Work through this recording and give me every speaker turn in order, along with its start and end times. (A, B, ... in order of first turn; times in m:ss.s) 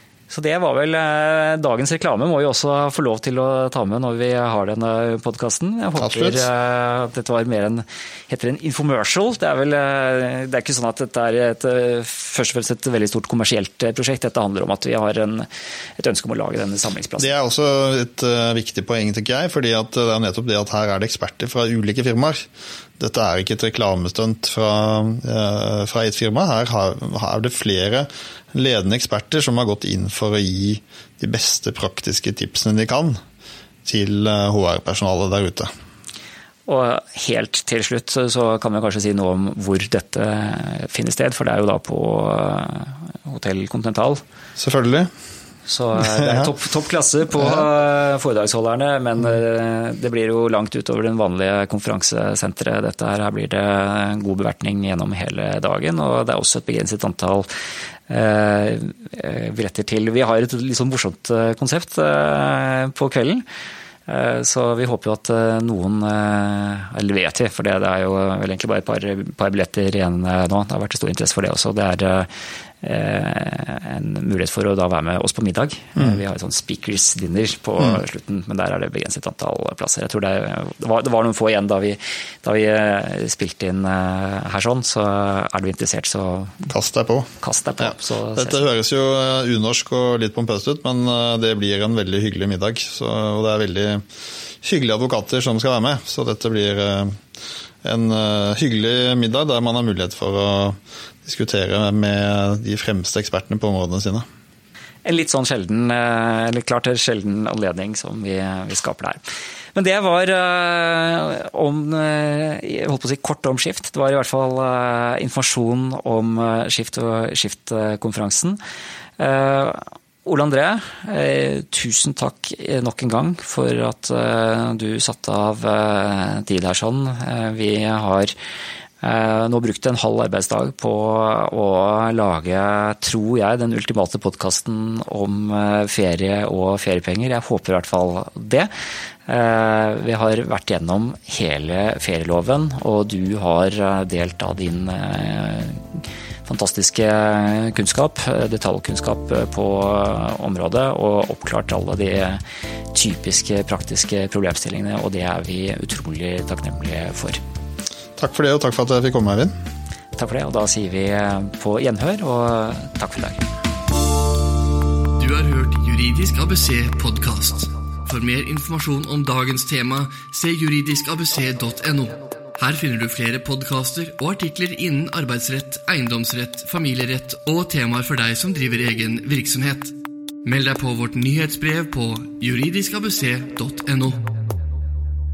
0:00.3-0:17.3 A
0:06.0-0:06.5 B
0:17.2-0:33.2 B
0:33.8-0:35.7 B
0:36.7-0:44.2 A
0:44.6-0:45.1 B
0:45.7-0:57.5 A
0:46.0-0:46.5 B
0:47.4-0:47.7 B
0:58.1-1:03.4 A
1:04.1-1:26.7 A
1:26.7-1:34.0 B
1:27.4-1:28.6 A
1:34.6-1:37.2 B
1:37.8-1:44.3 B
1:45.0-1:58.6 A
1:59.2-2:08.3 A
2:09.0-2:18.7 A
2:19.3-2:37.4 A
2:38.2-2:39.5 B
2:40.2-2:43.5 A
2:45.2-3:04.2 C